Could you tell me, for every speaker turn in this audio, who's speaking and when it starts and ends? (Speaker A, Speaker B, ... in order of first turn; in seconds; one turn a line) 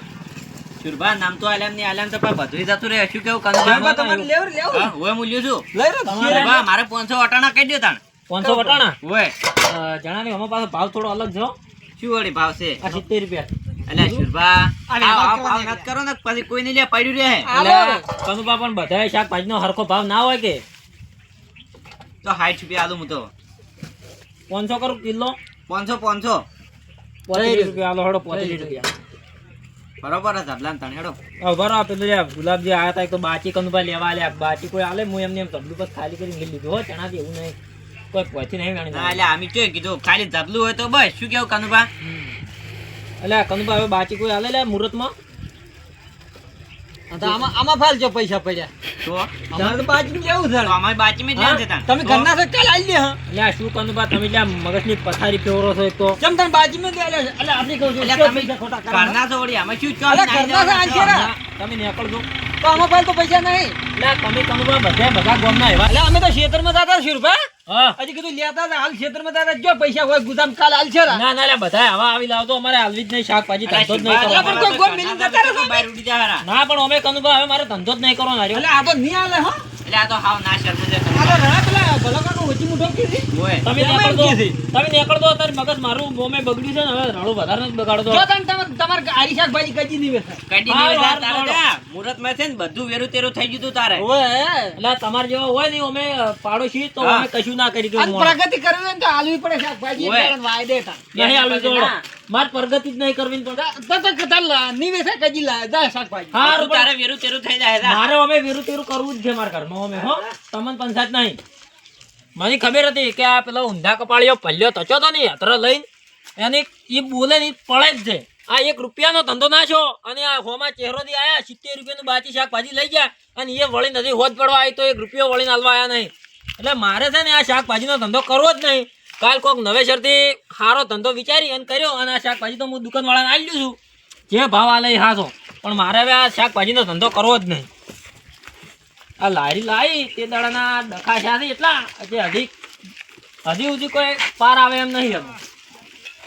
Speaker A: 0.8-3.9
Speaker B: 3.6-4.3
Speaker C: 3.6-4.9
Speaker A: 4.7-5.7
Speaker C: 5.7-6.6
Speaker B: 6.0-6.6
Speaker A: 6.3-8.0
Speaker B: 8.3-8.9
Speaker C: 8.4-8.8
Speaker A: 9.0-9.3
Speaker B: 9.6-11.6
Speaker A: 12.0-12.8
Speaker B: 12.8-13.5
Speaker A: 13.9-17.8
Speaker C: 14.9-15.9
Speaker C: 17.5-18.1
Speaker B: 17.6-20.6
Speaker A: 22.2-23.3
Speaker B: 24.5-25.4
Speaker A: 25.7-26.5
Speaker B: 27.3-28.9
Speaker C: 27.3-27.8
Speaker C: 28.3-28.8
Speaker A: 30.0-31.2
Speaker B: 31.4-37.6
Speaker B: 38.1-39.2
Speaker A: 38.9-41.9
Speaker C: 42.0-42.3
Speaker B: 43.2-45.1
Speaker C: 47.1-48.7
Speaker A: 49.0-49.5
Speaker C: 49.5-50.8
Speaker A: 50.6-52.3
Speaker B: 51.4-51.6
Speaker C: 51.9-53.2
Speaker B: 53.3-56.2
Speaker C: 56.2-59.2
Speaker A: 58.0-61.1
Speaker C: 60.1-61.3
Speaker B: 60.4-62.3
Speaker C: 62.6-63.8
Speaker B: 64.0-65.9
Speaker C: 65.9-71.2
Speaker B: 67.7-68.0
Speaker B: 71.1-74.7
Speaker A: 73.7-76.5
Speaker C: 74.2-75.9
Speaker B: 76.4-78.7
Speaker C: 78.5-79.5
Speaker A: 79.8-81.4
Speaker C: 81.1-84.6
Speaker A: 83.3-83.7
Speaker B: 83.6-88.3
Speaker C: 88.1-90.4
Speaker A: 90.5-94.1
Speaker B: 90.7-91.6
Speaker C: 94.0-94.8
Speaker B: 94.8-98.4
Speaker A: 97.0-97.3
Speaker C: 98.0-101.1
Speaker A: 100.0-100.4
Speaker A: 101.1-102.0
Speaker B: 101.2-103.6
Speaker C: 103.5-106.5
Speaker B: 106.3-106.9
Speaker A: 106.4-108.0
Speaker B: 107.8-111.4
Speaker B: 112.4-115.8
Speaker B: 116.4-133.8
Speaker B: 134.3-137.7
Speaker B: 139.2-142.5
Speaker B: 143.5-145.4